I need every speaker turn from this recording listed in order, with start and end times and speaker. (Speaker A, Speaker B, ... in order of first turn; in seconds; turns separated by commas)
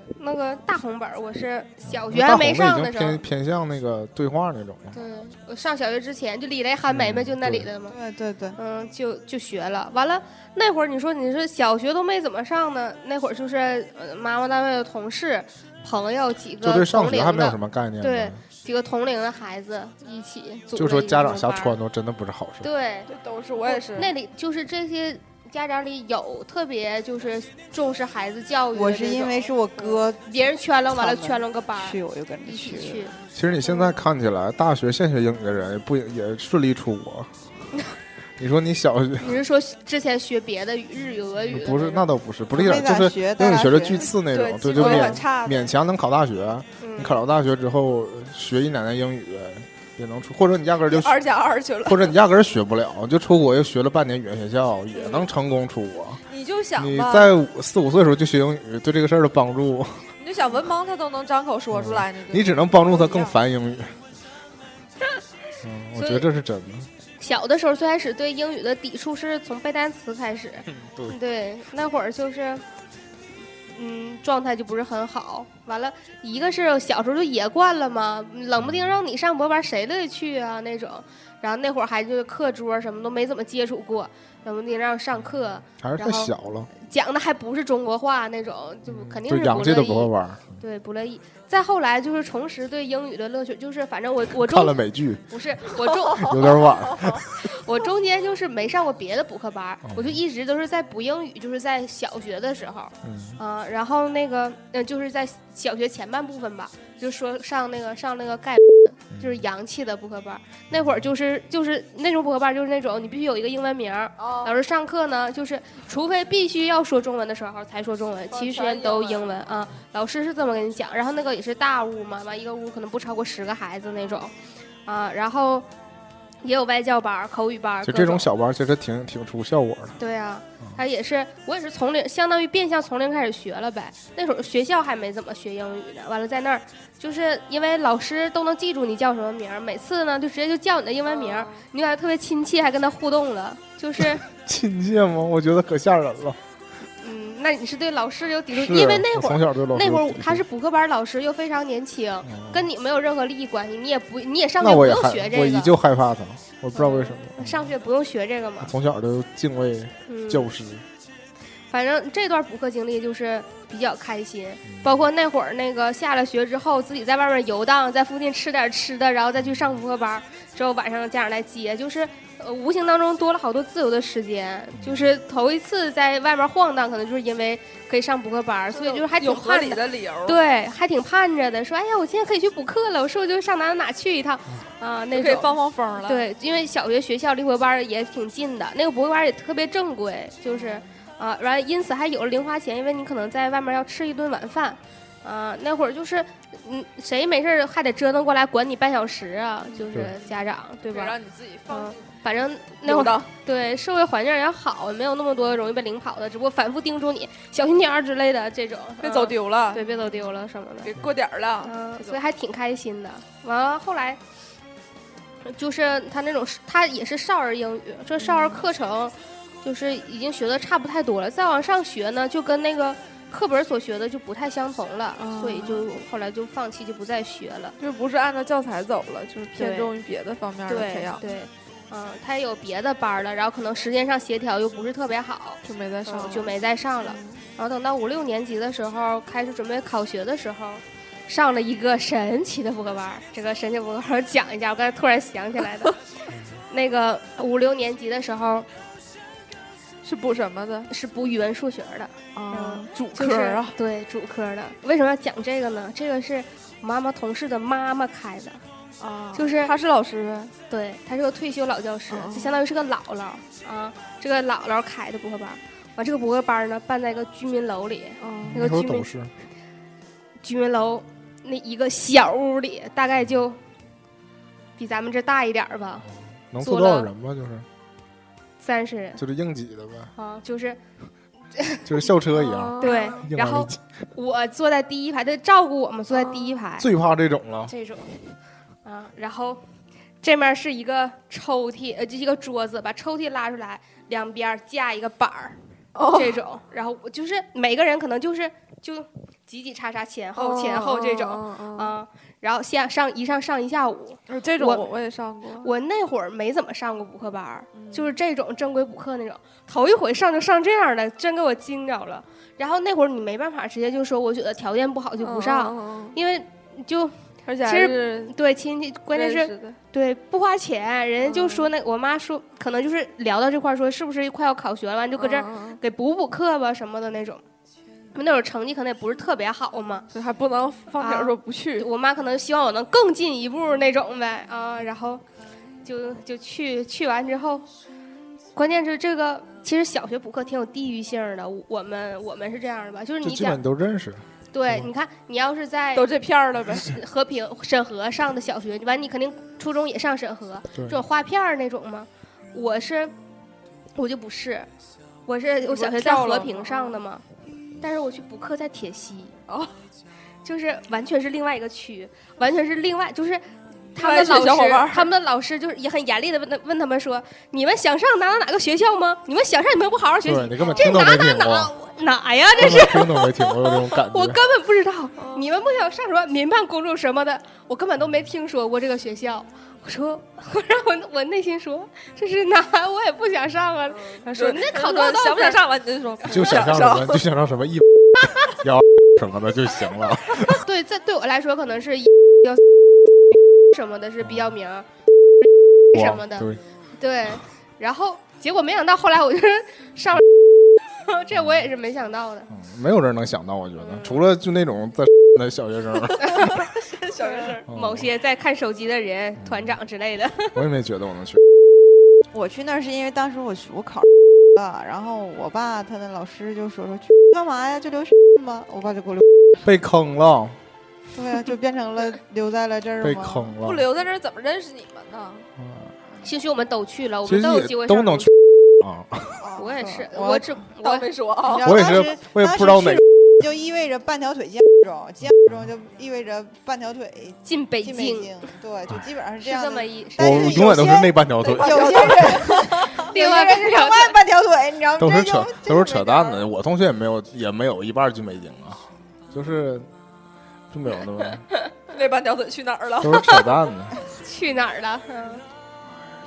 Speaker A: 0.1-3.2, Speaker B: 1.9-5.0, Speaker A: 4.9-8.0, Speaker B: 6.9-7.7, Speaker C: 7.9-8.6, Speaker A: 8.6-21.8, Speaker B: 16.6-18.4, Speaker B: 20.8-22.7, Speaker A: 22.6-33.1, Speaker D: 23.1-24.1, Speaker C: 28.7-30.2, Speaker C: 30.9-33.1, Speaker B: 33.3-37.3, Speaker B: 38.4-39.4, Speaker A: 39.2-42.1, Speaker B: 41.5-51.2, Speaker C: 42.5-44.1, Speaker D: 44.3-45.7, Speaker C: 44.8-45.2, Speaker A: 46.8-47.2, Speaker D: 50.9-52.1, Speaker B: 51.9-56.2, Speaker D: 54.9-55.3, Speaker D: 56.3-57.4, Speaker B: 56.8-60.1, Speaker D: 60.2-63.4, Speaker B: 61.7-64.0, Speaker B: 65.6-66.9, Speaker A: 66.0-66.2, Speaker A: 67.2-72.6, Speaker B: 70.7-71.2, Speaker A: 73.7-96.6, Speaker B: 78.6-79.0, Speaker B: 85.8-86.7, Speaker B: 88.9-90.6, Speaker B: 94.3-95.2, Speaker B: 96.1-97.4, Speaker A: 97.4-124.3, Speaker B: 99.8-100.2, Speaker B: 103.0-103.4, Speaker B: 109.1-109.4, Speaker B: 110.7-111.1, Speaker D: 114.2-114.6, Speaker D: 118.3-119.5, Speaker A: 124.9-125.7, Speaker A: 126.4-128.3, Speaker B: 127.8-130.0, Speaker A: 130.0-144.2, Speaker D: 141.1-141.7, Speaker B: 144.0-146.4, Speaker A: 147.0-155.7, Speaker B: 148.5-150.4, Speaker B: 152.3-152.7, Speaker B: 154.6-157.7, Speaker A: 156.8-158.7, Speaker B: 158.6-160.8, Speaker A: 160.1-160.5, Speaker A: 161.7-185.5, Speaker B: 164.7-165.1, Speaker B: 174.8-175.1, Speaker D: 178.7-180.4, Speaker D: 185.1-186.3, Speaker A: 186.0-201.2, Speaker D: 190.5-191.0, Speaker D: 200.9-202.1, Speaker A: 201.7-210.9, Speaker D: 202.8-203.3, Speaker D: 209.0-210.1, Speaker D: 210.8-212.2, Speaker A: 211.6-214.2, Speaker A: 215.4-227.8, Speaker D: 218.2-218.7, Speaker D: 225.2-225.9, Speaker D: 227.8-231.2, Speaker A: 229.6-229.9, Speaker A: 230.7-246.0, Speaker D: 235.6-237.4, Speaker B: 246.3-246.6, Speaker A: 246.7-248.7, Speaker D: 250.0-250.9, Speaker A: 250.9-258.6, Speaker D: 252.3-253.8, Speaker D: 259.0-260.5, Speaker A: 259.3-259.7, Speaker A: 260.7-269.1, Speaker D: 262.1-262.6, Speaker D: 268.2-268.6, Speaker B: 268.4-269.3, Speaker A: 270.4-273.6, Speaker A: 274.8-276.1, Speaker B: 276.5-277.7, Speaker A: 276.6-277.1, Speaker A: 278.6-279.2, Speaker B: 279.2-280.1, Speaker A: 280.2-280.8, Speaker A: 281.6-281.8, Speaker B: 281.9-283.8, Speaker D: 282.3-283.2, Speaker A: 282.8-286.9, Speaker D: 286.1-286.6, Speaker B: 286.8-287.7, Speaker A: 287.7-288.1, Speaker A: 288.9-289.6, Speaker A: 290.2-304.9, Speaker D: 295.9-296.4, Speaker D: 300.4-301.9, Speaker D: 304.3-305.7, Speaker A: 305.6-327.4, Speaker D: 307.8-308.1, Speaker D: 315.2-316.2, Speaker D: 317.4-318.3, Speaker D: 319.1-319.8, Speaker D: 321.2-321.7, Speaker D: 325.2-325.8, Speaker A: 328.1-330.1, Speaker D: 330.1-331.9, Speaker A: 331.0-335.2, Speaker A: 335.8-337.7, Speaker A: 338.6-343.6, Speaker B: 343.2-344.9, Speaker A: 344.5-346.1, Speaker D: 345.9-346.9, Speaker A: 346.8-353.1, Speaker B: 350.7-351.0, Speaker A: 353.9-354.7, Speaker A: 355.3-357.2, Speaker D: 355.6-357.0, Speaker A: 357.8-359.4, Speaker A: 360.4-363.4, Speaker A: 363.9-385.6, Speaker D: 364.0-365.1, Speaker B: 370.2-371.7, Speaker B: 372.6-374.4, Speaker D: 375.2-375.5, Speaker D: 384.0-387.2, Speaker B: 386.3-390.6, Speaker A: 390.4-392.6, Speaker A: 393.7-394.9, Speaker B: 394.2-394.5, Speaker A: 395.9-400.2, Speaker B: 395.9-396.6, Speaker A: 400.8-402.5, Speaker B: 402.5-406.6, Speaker A: 403.8-404.1, Speaker A: 406.2-406.6, Speaker D: 406.8-407.7, Speaker A: 407.2-410.6, Speaker B: 407.7-408.1, Speaker B: 409.4-409.8, Speaker B: 410.6-411.4, Speaker C: 412.3-419.6, Speaker B: 419.6-420.6, Speaker C: 421.1-423.5, Speaker B: 423.0-423.9, Speaker D: 423.6-425.5, Speaker B: 425.6-425.9, Speaker A: 426.2-428.3, Speaker B: 427.2-429.4, Speaker C: 429.4-430.5, Speaker A: 429.6-431.1, Speaker D: 430.8-431.9, Speaker C: 431.4-446.5, Speaker B: 431.6-433.0, Speaker A: 437.5-438.4, Speaker A: 439.4-440.7, Speaker B: 440.2-442.4, Speaker D: 441.4-443.1, Speaker A: 442.8-444.2, Speaker B: 445.0-449.9, Speaker B: 450.7-451.4, Speaker D: 451.9-453.5, Speaker B: 453.0-453.9, Speaker A: 454.2-455.4